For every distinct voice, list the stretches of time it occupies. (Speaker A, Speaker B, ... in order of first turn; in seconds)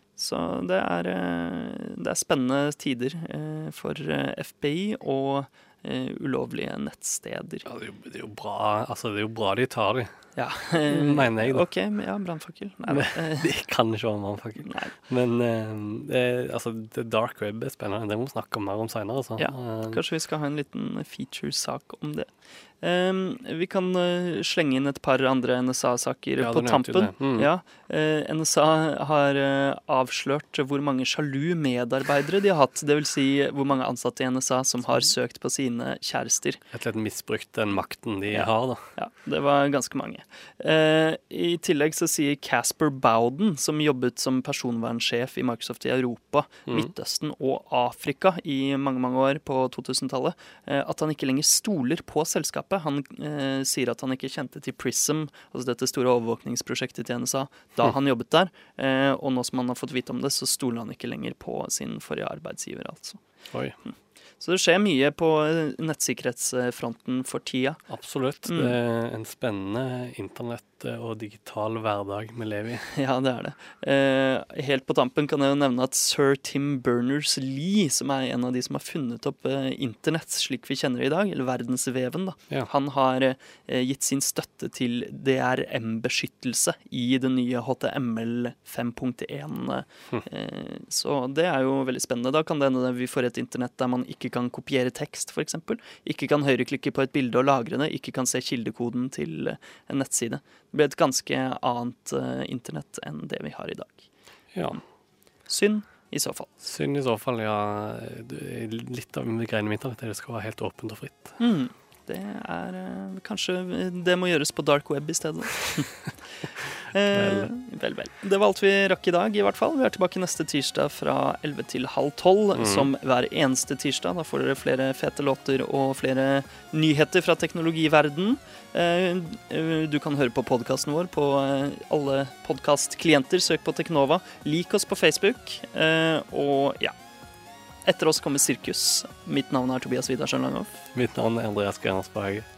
Speaker A: 0.2-7.7, 10.4-13.5, 14.6-14.9, 19.4-22.3, 22.8-36.6, 38.3-63.2, 63.9-67.8, 68.5-68.8, 72.9-104.1, 105.5-106.5, 111.4-116.1, 116.8-136.9, 137.9-140.9
Speaker B: 7.7-10.2, 10.9-11.7, 12.9-20.0, 26.4-27.5, 34.9-35.1, 36.7-38.9, 63.5-63.8, 67.9-72.9, 104.5-104.8, 106.6-111.4, 117.1-117.5, 122.5-122.9, 140.9-142.5